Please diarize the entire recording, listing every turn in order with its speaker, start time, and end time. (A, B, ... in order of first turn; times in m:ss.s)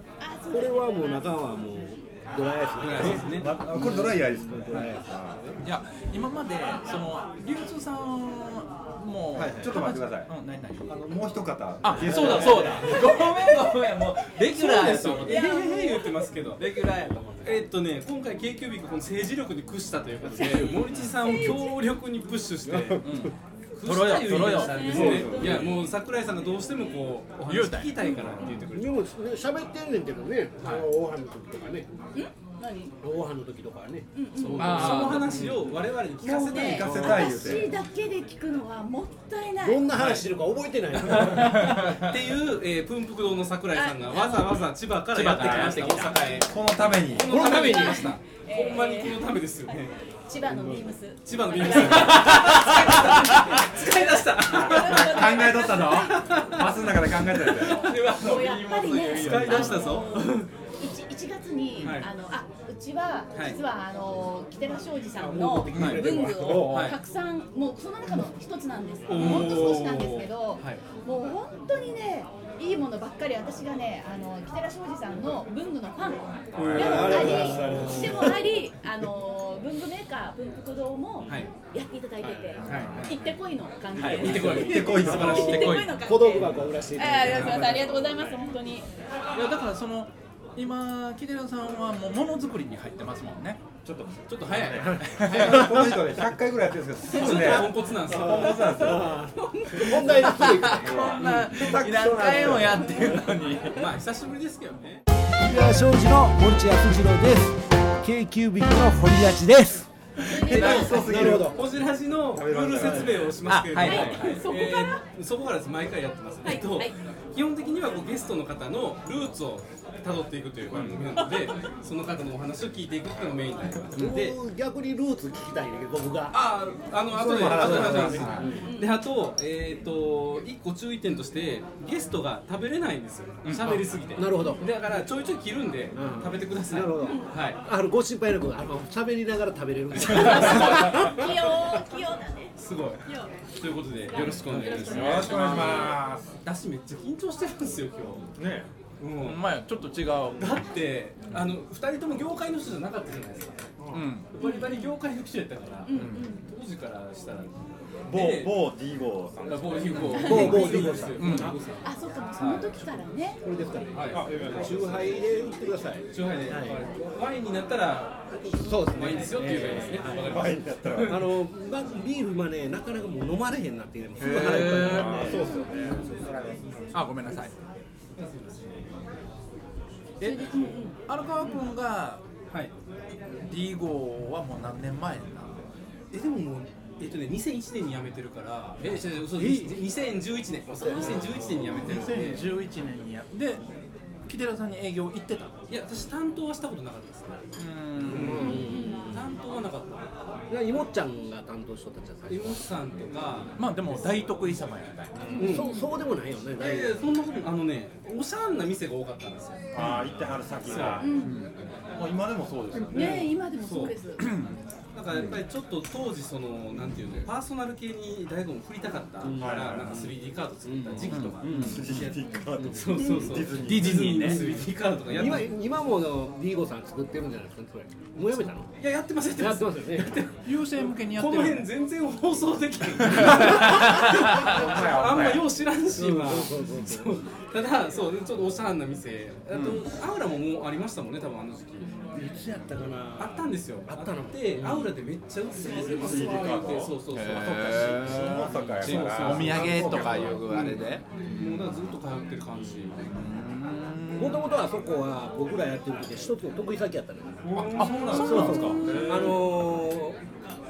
0:00.2-0:01.4 A
0:00.5-0:05.5 B
0:02.8-0:03.5 C
0:03.0-0:05.5 D
0:05.6-0:11.0 E
0:09.4-0:09.7 B
0:09.5-0:10.3 D
0:10.9-0:12.8 D
0:11.8-0:15.5 E
0:12.0-0:13.2 B
0:14.6-0:16.6 C
0:14.6-0:15.2 B
0:15.2-0:16.3 A
0:16.5-0:17.6 E
0:17.4-0:23.0 C
0:20.2-0:20.8 B
0:20.5-0:21.8 A
0:22.7-0:23.3 B
0:23.0-0:25.1 E
0:23.7-0:29.0 C
0:24.1-0:25.8 D
0:24.4-0:25.9 A
0:24.9-0:25.6 B
0:27.4-0:28.0 E
0:28.0-0:28.7 A
0:28.4-0:31.9 B
0:30.6-0:30.9 C
0:32.1-0:32.9 A
0:33.0-0:35.8 B
0:34.1-0:35.2 A
0:34.4-0:37.3 C
0:34.6-0:35.4 E
0:36.2-0:39.8 A
0:36.5-0:37.7 D
0:36.9-0:37.2 B
0:39.6-0:41.9 B
0:40.0-0:40.2 C
0:41.1-0:46.6 C
0:41.3-0:42.1 E
0:43.7-0:44.6 A
0:45.1-0:46.4 E
0:45.4-0:45.8 D
0:46.4-0:47.3 D
0:47.1-0:49.9 C
0:47.2-0:56.4 A
0:47.3-0:47.9 B
0:50.5-0:50.8 B
0:51.2-0:55.6 C
0:51.9-0:53.5 E
0:54.5-0:58.1 D
0:56.2-0:56.7 C
0:57.4-1:00.5 C
0:57.4-1:28.9 A
0:59.0-0:59.9 E
1:01.8-1:02.1 C
1:03.3-1:03.6 C
1:05.2-1:06.9 B
1:05.7-1:06.4 E
1:06.4-1:07.0 C
1:09.0-1:10.8 C
1:16.5-1:18.1 D
1:16.6-1:18.6 B
1:16.7-1:17.9 C
1:21.2-1:21.5 C
1:22.5-1:23.1 D
1:22.6-1:23.2 C
1:22.7-1:23.1 E
1:23.9-1:26.0 E
1:24.0-1:25.6 C
1:24.0-1:28.3 B
1:24.2-1:25.5 D
1:27.2-1:27.8 C
1:29.3-1:33.6 E
1:33.8-1:39.2 D
1:34.3-1:35.7 C
1:34.8-1:35.6 B
1:35.0-1:35.7 E
1:37.0-1:38.8 C
1:38.0-1:41.2 B
1:39.4-1:40.3 A
1:40.1-1:43.9 E
1:40.7-1:42.9 D
1:42.0-1:42.8 B
1:43.7-1:45.0 C
1:45.4-1:49.9 B
1:50.2-1:51.0 A
1:50.4-1:53.3 D
1:50.5-1:51.6 B
1:50.5-2:04.4 C
1:50.6-1:50.9 E
1:52.8-1:53.3 B
1:53.4-1:54.4 E
1:53.8-1:55.0 A
1:56.4-1:56.9 A
2:00.7-2:01.1 D
2:01.2-2:01.5 A
2:03.9-2:06.5 B
2:06.3-2:17.6 C
2:07.1-2:08.5 D
2:07.3-2:08.7 B
2:08.6-2:09.0 A
2:13.4-2:13.8 E
2:14.2-2:14.6 B
2:15.9-2:21.4 B
2:17.0-2:17.3 A
2:20.1-2:23.3 A
2:20.1-2:21.1 C
2:22.6-2:23.0 C
2:23.6-2:28.2 C
2:24.1-2:26.0 A
2:24.5-2:25.3 E
2:24.8-2:26.2 D
2:28.4-2:28.7 D
2:29.0-2:29.4 C
2:29.2-2:30.6 E
2:30.4-2:33.7 C
2:33.8-2:34.0 D
2:33.9-2:34.3 E
2:34.3-2:37.5 C
2:34.4-2:34.8 A
2:35.8-2:36.4 A
2:35.9-2:36.4 E
2:38.0-2:38.6 C
2:38.1-2:40.6 D
2:39.4-2:42.9 C
2:40.1-2:41.7 B
2:40.1-2:40.8 A
2:40.2-2:41.6 E
2:41.8-2:43.4 A
2:43.4-2:46.8 B
2:43.9-2:44.8 C
2:44.1-2:45.1 D
2:46.1-2:51.3 C
2:48.6-2:55.5 B
2:49.6-2:51.3 D
2:54.2-2:55.2 E
2:54.2-2:57.1 D
2:54.2-2:55.4 C
2:55.3-2:55.7 A
2:56.9-2:57.5 E
2:58.2-2:58.8 C
3:00.2-3:01.5 A
3:00.2-3:02.2 E
3:03.4-3:05.6 E
3:06.1-3:12.4 C
3:09.1-3:09.8 B
3:10.8-3:11.9 A
3:10.9-3:11.7 B
3:11.7-3:13.6 E
3:14.3-3:15.5 E
3:15.7-3:17.4 C
3:17.6-3:18.7 E
3:18.0-3:20.0 C
3:18.0-3:19.3 B
3:18.3-3:19.0 A
3:20.5-3:22.6 B
3:22.3-3:23.6 C
3:23.6-3:25.5 E
3:25.2-3:25.6 D
3:25.3-3:25.9 A
3:25.4-3:27.0 B
3:26.6-3:29.7 C
3:29.7-3:31.1 D
3:29.8-3:30.0 E
3:30.6-3:31.1 C
3:31.0-3:31.4 A
3:31.0-3:33.3 E
3:32.0-3:33.1 D
3:32.9-3:34.0 C
3:32.9-3:34.2 A
3:34.2-3:34.6 E
3:34.9-3:45.5 C
3:35.1-3:35.4 E
3:39.2-3:40.0 B
3:39.4-3:40.1 D
3:40.6-3:43.5 B
3:41.1-3:41.8 E
3:41.5-3:44.2 D
3:43.6-3:44.5 E
3:44.1-3:48.7 B
3:48.8-4:01.9 C
3:49.4-3:50.2 B
3:50.4-3:51.7 E
3:53.0-3:54.8 E
3:53.5-3:55.5 D
3:55.9-3:57.2 B
3:59.5-3:59.8 E
4:02.1-4:05.0 B
4:03.2-4:13.1 C
4:05.8-4:06.9 D
4:07.0-4:11.8 E
4:08.0-4:10.4 D
4:08.9-4:10.4 B
4:12.6-4:12.9 B
4:13.1-4:14.4 E
4:14.2-4:20.2 B
4:17.4-4:19.4 C
4:17.7-4:19.4 E
4:18.8-4:19.2 D